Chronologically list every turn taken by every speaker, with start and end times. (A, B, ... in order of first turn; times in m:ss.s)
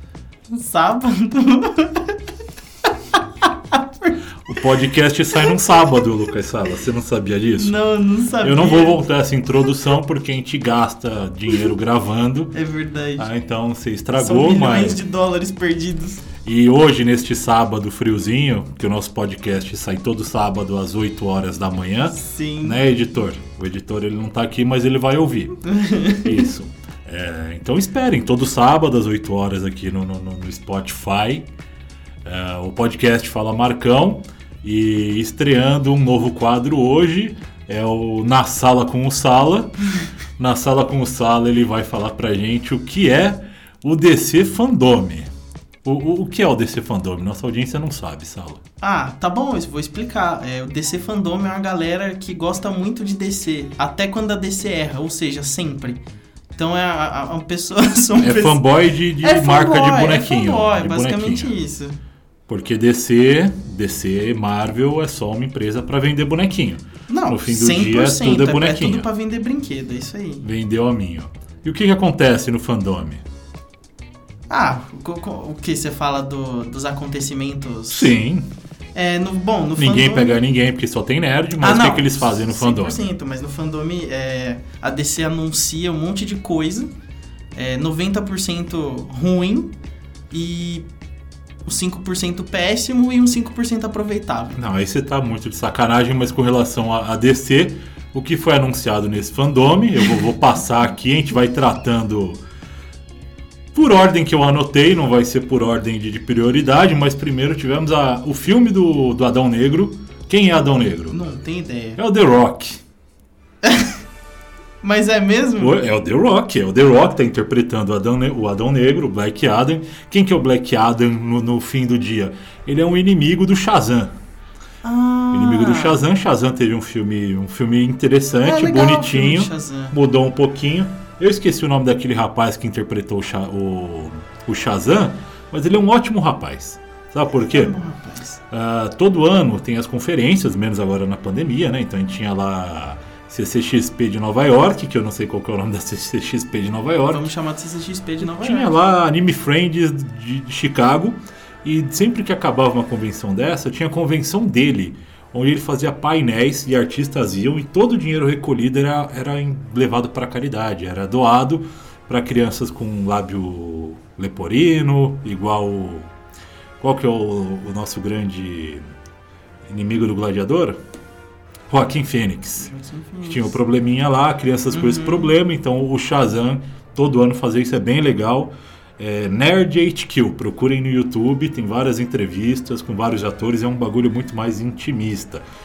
0:00.5-0:02.2 A
0:03.1-0:04.2 A
0:04.4-0:07.8 B
0:07.6-0:09.0 A
0:08.4-0:12.6 B
0:12.5-0:13.3 A
0:13.2-0:15.0 B
0:14.2-0:16.2 A
0:16.4-0:25.6 B
0:22.1-0:22.8 A
0:25.6-0:26.5 A
0:26.2-0:31.5 B
0:32.2-0:39.7 B
0:40.4-0:45.3 B
0:45.8-0:48.6 B
0:48.8-0:56.0 A
0:56.6-0:58.6 A
0:58.2-1:01.5 B
0:59.2-1:02.0 A
1:02.5-1:09.1 B
1:07.1-1:10.4 A
1:10.4-1:13.2 B
1:14.5-1:18.1 A
1:17.9-1:18.5 B
1:18.9-1:20.3 A
1:19.8-1:23.1 B
1:21.6-1:26.9 A
1:27.5-1:29.7 A
1:30.3-1:30.8 A
1:31.6-1:34.6 A
1:34.6-1:42.4 B
1:43.7-1:51.2 B
1:51.1-1:52.0 A
1:52.0-1:52.8 B
1:53.6-1:53.9 A
1:54.8-1:55.8 A
1:55.6-2:04.2 B
2:04.8-2:06.0 A
2:05.3-2:17.7 B
2:08.4-2:09.9 A
2:17.3-2:18.4 A
2:18.5-2:27.3 B
2:27.1-2:28.7 A
2:28.2-2:46.1 B
2:46.8-2:48.8 B
2:49.7-2:50.8 B
2:51.7-2:52.7 B
2:52.6-2:53.6 A
2:53.2-3:05.4 B
2:54.7-2:55.3 A